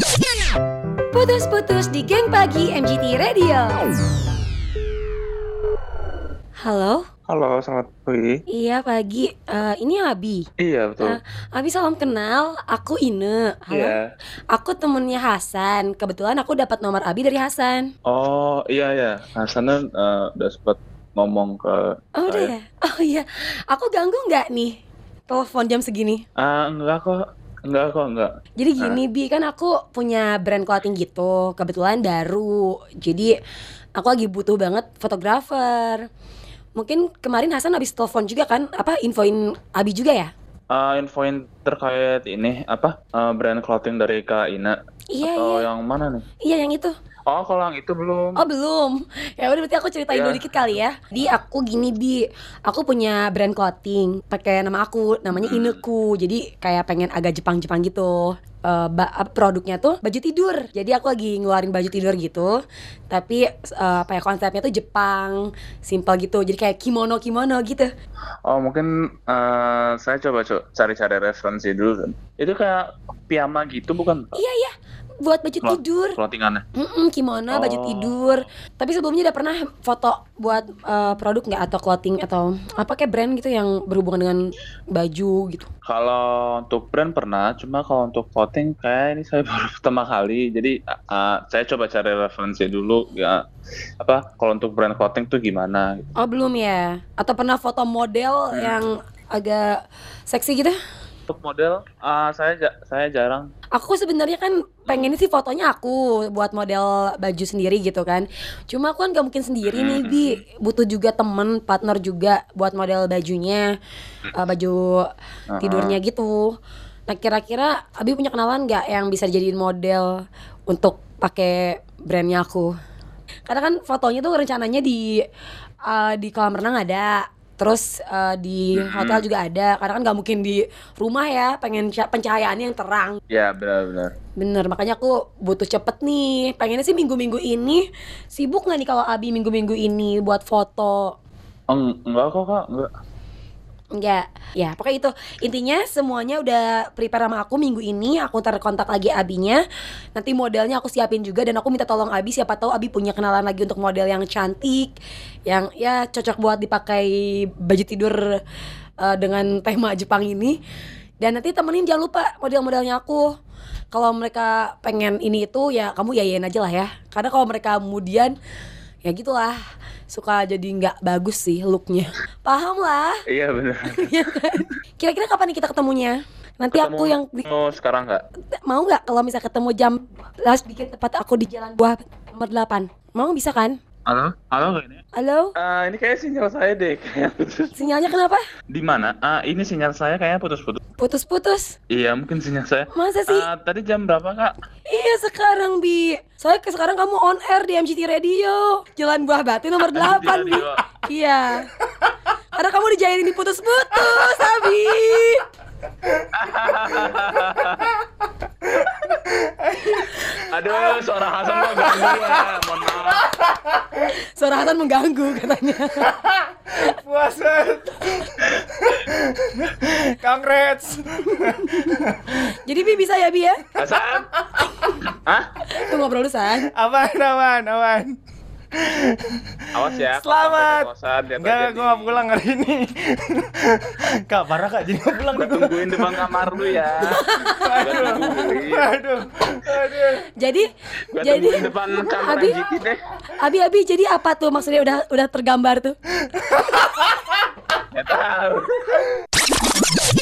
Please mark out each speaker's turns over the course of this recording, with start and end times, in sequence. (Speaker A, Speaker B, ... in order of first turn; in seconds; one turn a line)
Speaker A: 1.1-3.8
Speaker A: 6.6-7.0
Speaker B: 7.3-8.4
Speaker A: 8.5-10.4
Speaker B: 10.6-11.2
Speaker A: 11.0-14.0
Speaker B: 13.7-14.0
Speaker A: 14.5-17.9
Speaker B: 18.1-22.5
Speaker A: 22.2-24.7
Speaker A: 25.3-26.2
Speaker B: 26.4-29.0
Speaker A: 28.6-33.3
Speaker A: 34.0-36.0
Speaker A: 36.8-40.3
Speaker B: 40.7-46.2
Speaker A: 45.1-45.7
Speaker A: 46.4-46.9
Speaker B: 47.3-48.4
Speaker A: 48.4-62.5
Speaker B: 50.1-50.8
Speaker B: 55.3-55.8
Speaker A: 63.1-67.9
Speaker B: 68.5-74.3
Speaker A: 74.3-74.7
Speaker A: 75.2-76.2
Speaker B: 75.6-76.6
Speaker A: 76.8-84.4
Speaker B: 77.5-78.2
Speaker A: 84.9-85.7
Speaker B: 85.8-93.4
Speaker B: 94.0-96.0
Speaker A: 96.2-100.7
Speaker B: 98.5-98.8
Speaker B: 101.3-103.5
Speaker A: 103.7-113.7
Speaker B: 104.9-105.1
Speaker B: 109.7-110.4
Speaker A: 114.4-115.1
Speaker B: 115.5-116.0
Speaker A: 115.6-116.5
Speaker A: 117.1-122.7
Speaker A: 123.5-125.2
Speaker A: 125.9-133.2
Speaker B: 128.7-129.2
Speaker B: 133.3-134.1
Speaker A: 134.4-141.1
Speaker B: 141.7-142.9
Speaker A: 143.9-149.6
Speaker A: 150.2-154.9
Speaker A: 155.5-158.3
Speaker A: 159.0-160.6
Speaker A: 161.2-163.3
Speaker A: 163.9-168.3
Speaker A: 169.0-169.6
Speaker A: 170.1-173.2
Speaker B: 173.3-174.1
Speaker A: 173.9-177.4
Speaker B: 176.7-178.2
Speaker A: 178.7-183.8
Speaker B: 184.1-185.0
Speaker A: 185.1-185.5
Speaker B: 185.6-187.9
Speaker A: 187.8-188.4
Speaker B: 188.7-190.8
Speaker A: 191.0-191.8
Speaker B: 191.9-194.5
Speaker A: 192.9-193.5
Speaker A: 194.9-201.7
Speaker B: 199.9-200.8
Speaker A: 202.5-205.4
Speaker B: 206.3-207.8
Speaker C: 208.7-210.2
Speaker B: 210.5-213.2
Speaker C: 211.6-212.5
Speaker A: 214.3-216.2
Speaker C: 216.1-222.4
Speaker A: 222.6-223.6
Speaker C: 223.7-224.7
Speaker B: 223.8-224.3
Speaker B: 225.1-225.5
Speaker A: 225.7-226.7
Speaker C: 226.7-228.2
Speaker C: 228.8-240.2
Speaker B: 229.7-232.2
Speaker B: 235.4-237.2
Speaker A: 237.1-238.2
Speaker B: 237.8-238.9
Speaker A: 240.4-242.6
Speaker B: 241.1-243.0
Speaker A: 243.4-245.9
Speaker C: 246.4-246.8
Speaker B: 247.9-249.0